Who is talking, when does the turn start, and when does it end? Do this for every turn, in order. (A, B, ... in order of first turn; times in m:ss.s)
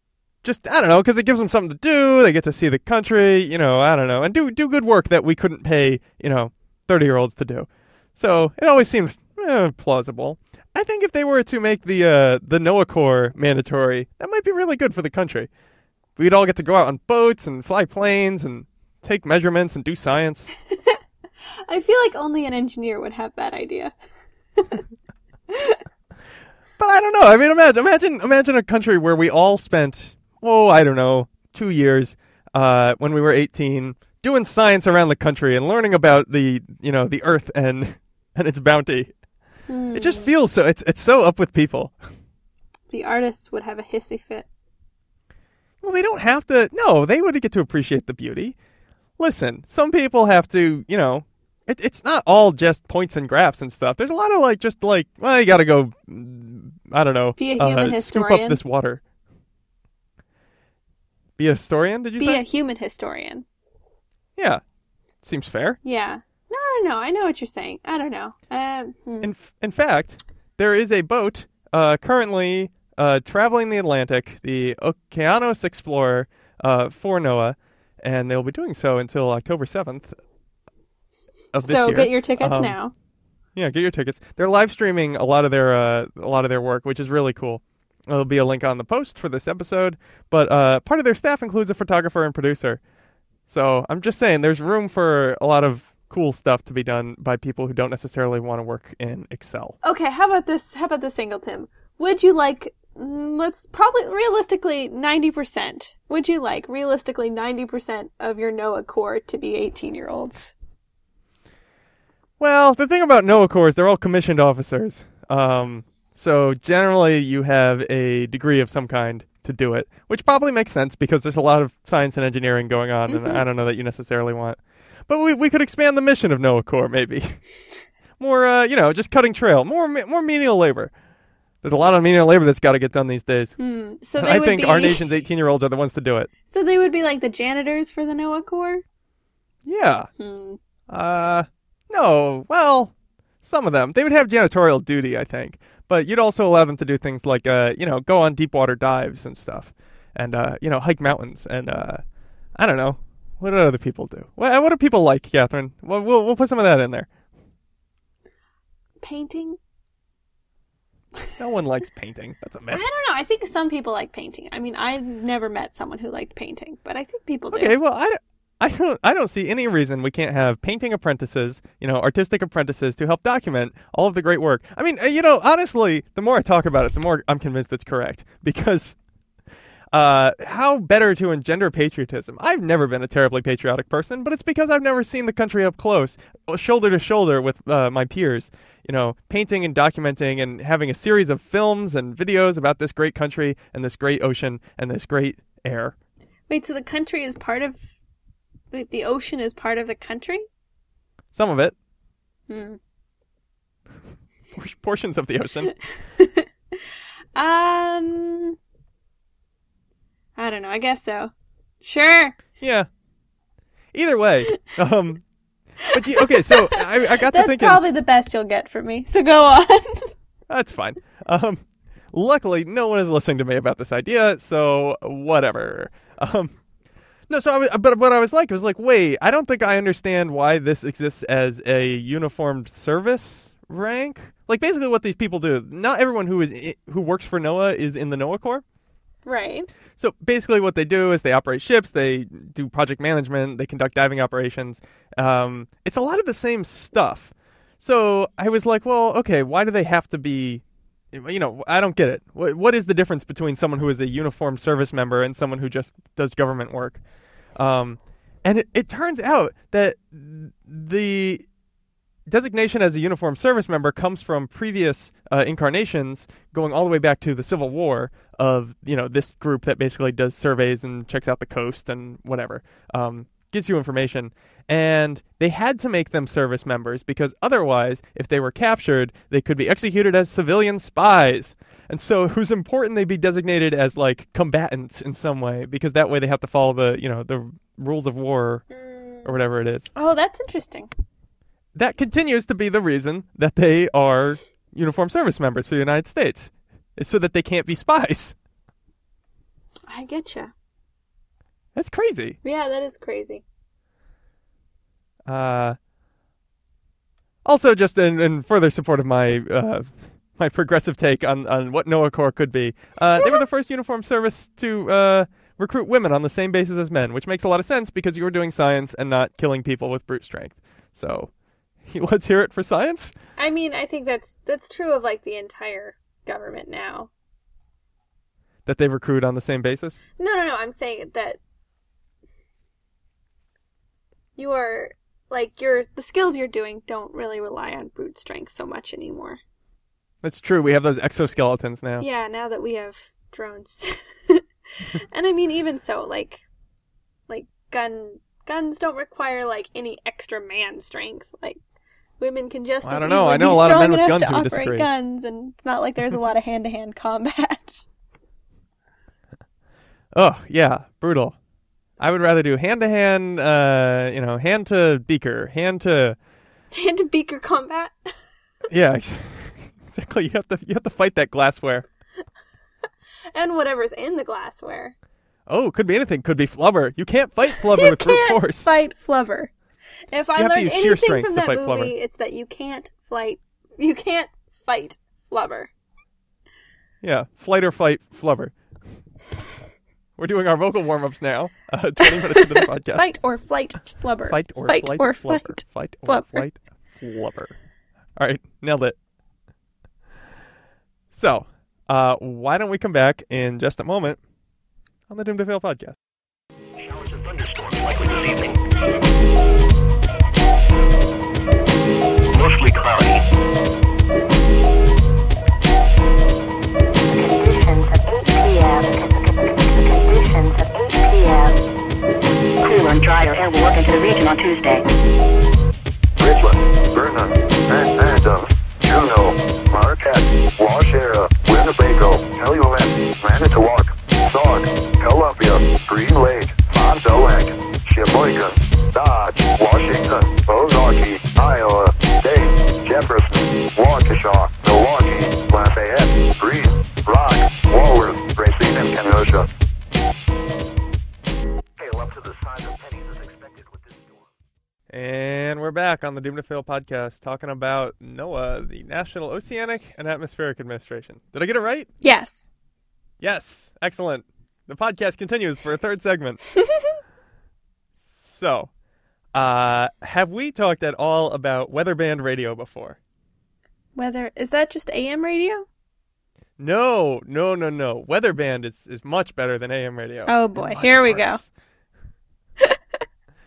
0:00.4-0:15.5 A
0:16.2-0:20.5 A
0:21.7-0:23.9 B
0:24.6-0:24.8 B
0:25.5-0:25.8 B
0:26.8-0:39.1 A
0:39.7-0:40.3 B
0:39.9-0:41.9 A
0:42.9-0:44.4 B
0:45.8-0:48.5 A
0:49.2-0:59.0 A
0:57.4-0:58.6 B
1:01.4-1:02.4 A
1:02.2-1:03.4 B
1:04.4-1:04.6 A
1:05.2-1:05.8 A
1:05.8-1:09.3 B
1:09.2-1:20.2 A
1:21.5-1:22.8 A
1:21.6-1:22.9 B
1:23.6-1:32.8 A
1:33.5-1:39.8 A
1:39.8-1:50.5 B
1:52.4-2:07.4 A
2:03.1-2:03.4 B
2:08.2-2:10.9 A
2:11.6-2:13.6 A
2:13.6-2:15.0 B
2:14.2-2:16.3 A
2:16.5-2:18.8 B
2:19.6-2:20.1 A
2:20.2-2:20.6 B
2:20.9-2:32.0 A
2:32.6-2:37.1 A
2:39.0-2:39.6 B
2:41.4-2:42.8 A
2:42.7-2:47.7 B
2:47.5-2:59.0 A
2:59.9-3:15.9 A
3:16.5-3:17.9 B
3:18.7-3:20.5 B
3:21.3-3:21.7 A
3:22.5-3:22.8 B
3:24.5-3:25.7 A
3:26.2-3:26.4 B
3:27.3-3:28.6 B
3:30.4-3:32.4 B
3:32.6-3:32.9 A
3:33.9-3:35.2 A
3:35.9-3:37.8 A
3:36.1-3:40.1 B
3:40.5-3:46.5 A
3:47.3-3:58.6 A
3:59.2-3:59.7 B
4:00.0-4:17.0 A
4:17.6-4:21.4 A
4:22.3-4:48.6 A
4:48.7-4:49.3 B
4:49.2-4:49.9 A
4:50.0-4:50.9 B
4:51.7-4:58.4 A
4:59.9-5:00.5 B
5:01.7-5:02.4 A
5:02.4-5:03.4 B
5:05.2-5:05.8 A
5:07.4-5:21.3 A
5:21.8-5:23.1 A
5:23.4-5:27.1 B
5:28.6-5:30.0 A
5:30.2-5:31.4 B
5:34.4-5:39.4 B
5:40.2-5:42.0 A
5:42.0-5:46.4 B
5:47.3-5:51.6 B
5:52.2-5:57.9 B
5:52.8-5:54.9 A
6:00.1-6:01.3 A
6:02.0-6:06.2 A
6:06.7-6:08.1 B
6:08.7-6:11.8 A
6:13.3-6:14.9 B
6:15.5-6:18.7 A
6:17.7-6:19.5 B
6:20.1-6:25.7 B
6:20.4-6:21.9 A
6:27.0-6:28.5 A
6:30.2-6:33.0 A
6:32.9-6:36.4 B
6:34.3-6:37.5 A
6:38.2-6:39.0 A
6:41.1-6:44.2 A
6:45.1-6:46.0 A
6:46.8-6:48.6 C
6:52.3-6:53.2 C
6:57.0-7:01.6 D
7:02.6-7:04.9 D
7:06.2-7:29.5 E
7:31.8-7:34.3 C
7:34.9-7:41.9 A
7:42.0-7:42.5 B
7:43.2-7:46.4 A
7:46.6-7:46.9 B
7:48.0-7:48.7 A
7:49.3-7:53.0 A
7:53.9-7:55.6 B
7:56.6-8:01.5 A
8:00.3-8:01.4 B